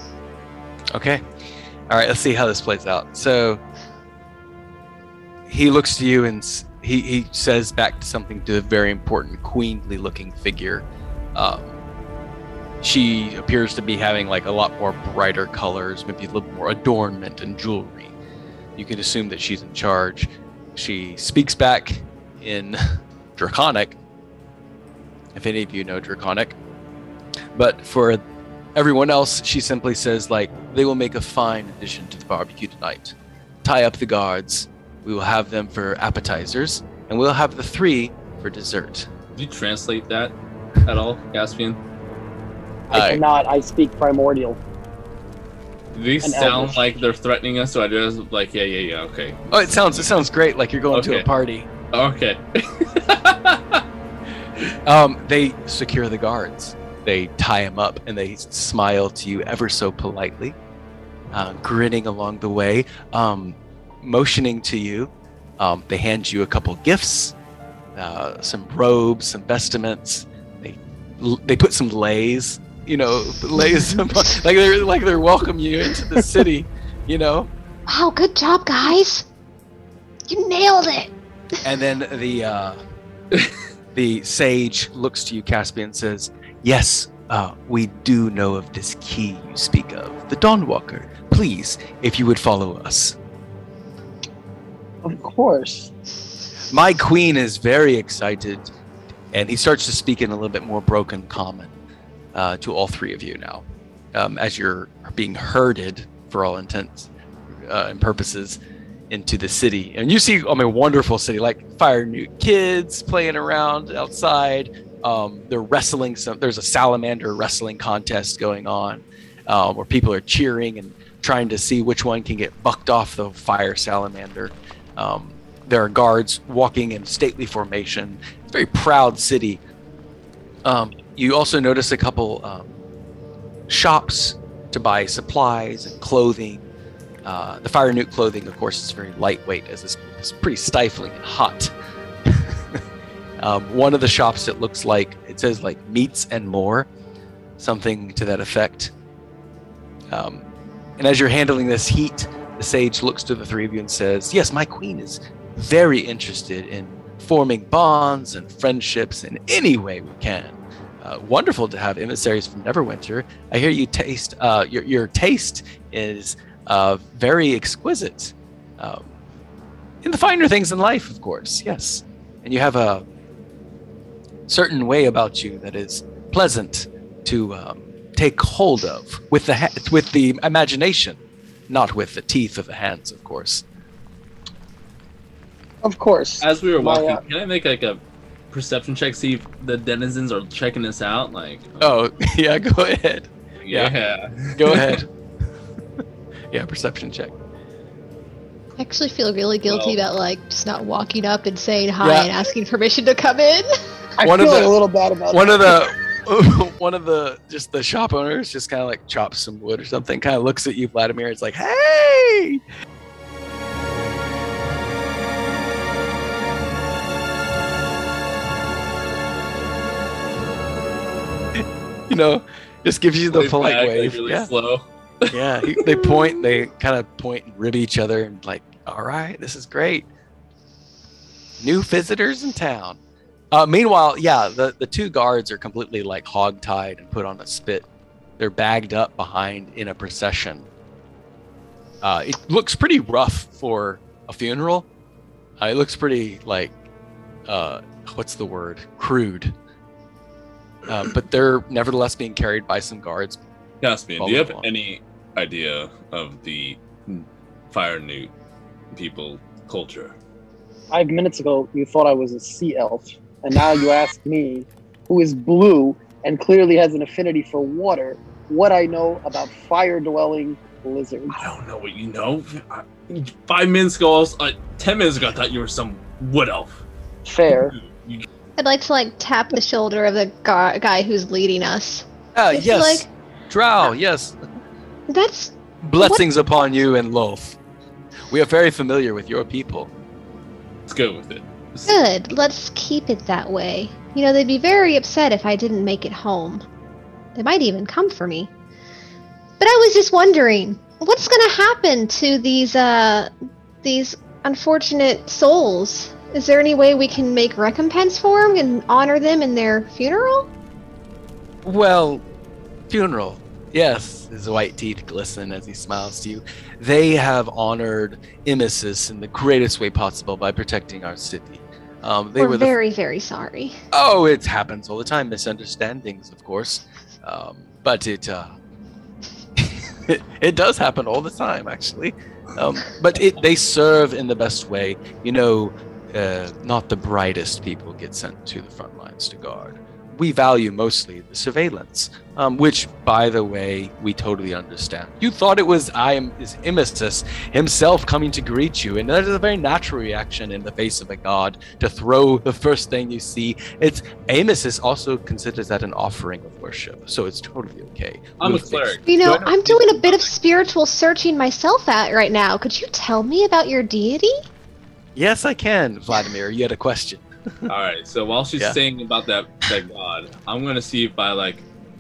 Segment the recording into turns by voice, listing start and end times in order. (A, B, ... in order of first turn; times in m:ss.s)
0:00.9-0:01.2 A
0:01.9-0:03.6 A
0:05.5-0:11.8 A
0:12.8-0:18.2 A
0:18.8-0:24.0 A
0:25.3-0:26.6 A
0:27.6-0:28.2 A
0:28.8-0:39.1 A
0:39.4-0:41.8 B
0:42.9-0:44.6 C
0:42.9-0:43.2 A
0:45.9-0:49.8 B
0:46.2-0:46.8 C
0:49.5-0:51.7 A
0:50.9-0:51.3 B
0:51.9-0:53.8 B
0:54.8-1:00.6 A
1:01.3-1:07.4 A
1:08.0-1:17.5 A
1:13.7-1:14.0 D
1:17.9-1:19.3 D
1:20.3-1:21.1 D
1:21.6-1:22.8 A
1:23.9-1:33.2 A
1:35.0-1:35.9 C
1:36.7-1:38.7 A
1:39.3-1:41.7 A
1:42.3-1:48.6 A
1:49.1-2:09.6 A
2:10.6-2:12.8 A
2:13.7-2:16.6 A
2:17.2-2:21.7 A
2:22.2-2:22.8 A
2:23.4-2:26.9 A
2:27.6-2:28.9 A
2:30.1-2:30.4 A
2:31.0-2:49.1 A
2:50.0-2:53.0 A
2:54.5-3:03.6 A
3:05.8-3:07.2 C
3:06.4-3:11.9 B
3:11.8-3:13.9 A
3:13.6-3:15.0 B
3:14.6-3:15.1 A
3:16.5-3:17.3 A
3:18.8-3:23.7 D
3:19.7-3:20.0 B
3:22.0-3:22.3 A
3:24.2-3:25.9 C
3:24.2-3:24.7 A
3:25.3-3:32.6 A
3:41.6-3:44.5 A
3:43.3-3:46.2 B
3:45.3-3:50.1 A
3:51.6-3:53.0 A
3:53.5-3:57.9 A
3:58.4-4:00.7 A
4:02.0-4:04.9 A
4:05.6-4:06.8 A
4:07.5-4:09.6 A
4:10.9-4:13.4 A
4:13.8-4:18.3 B
4:14.2-4:14.7 A
4:18.9-4:20.2 B
4:20.9-4:31.4 C
4:31.3-4:36.8 B
4:37.2-4:37.7 C
4:37.7-4:38.3 B
4:38.6-4:43.1 D
4:42.3-4:44.4 A
4:45.1-4:46.3 D
4:45.8-4:47.6 A
4:48.3-4:49.9 A
4:50.9-4:52.0 B
4:51.9-4:56.6 D
4:57.4-4:58.5 D
4:59.6-5:03.3 D
5:03.8-5:10.5 D
5:11.6-5:12.2 A
5:12.9-5:22.7 A
5:22.4-5:23.8 D
5:23.9-5:28.5 A
5:29.6-5:59.0 A
5:58.4-6:00.2 B
5:59.1-6:04.4 D
6:05.2-6:07.7 A
6:07.7-6:11.6 B